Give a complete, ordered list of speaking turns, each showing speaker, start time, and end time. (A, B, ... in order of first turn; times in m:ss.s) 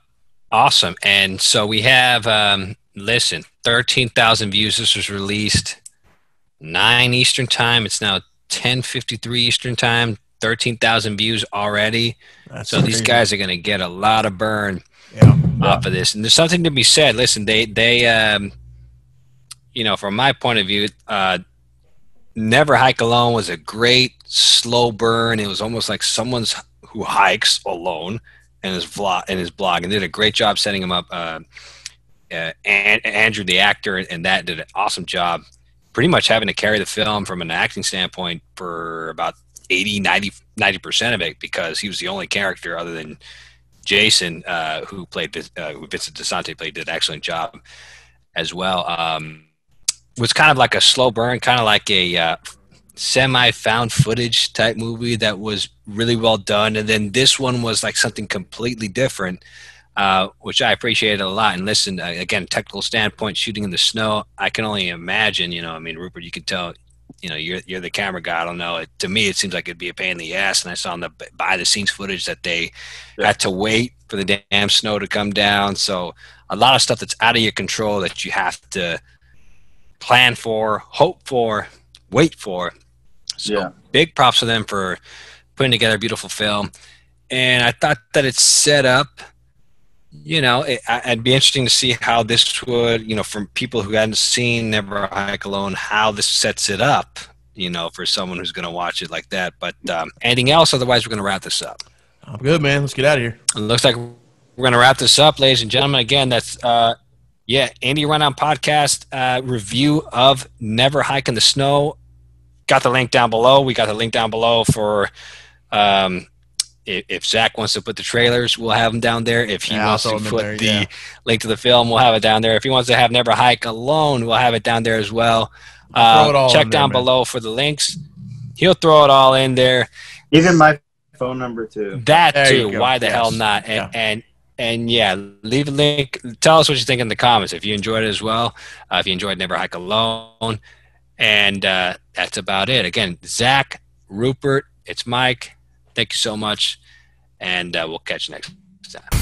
0:00.5-0:05.8 A
0:06.6-0:12.2 A
0:12.5-0:13.2 B
0:12.7-0:14.8 A
0:15.1-0:15.8 B
0:15.6-0:18.5 A
0:19.7-0:21.4 A
0:22.4-0:31.4 A
0:32.3-0:35.4 A
0:35.9-0:43.2 A
0:43.8-0:47.6 A
0:48.4-0:49.4 A
0:50.2-0:52.4 A
0:53.0-0:59.4 A
1:00.0-1:19.0 A
1:20.0-1:22.7 A
1:23.4-1:25.0 A
1:23.4-1:23.7 C
1:25.6-1:26.7 A
1:27.3-1:29.2 A
1:30.2-1:41.8 A
1:42.2-1:43.4 B
1:43.6-1:47.0 A
1:47.5-1:52.0 A
1:52.7-1:55.1 A
1:55.7-1:56.3 A
1:56.8-2:08.0 A
1:59.7-2:00.9 B
2:05.9-2:07.1 B
2:08.6-2:09.9 A
2:10.3-2:12.0 C
2:11.9-2:20.6 A
2:12.3-2:13.9 B
2:21.2-2:26.8 A
2:27.4-2:29.1 A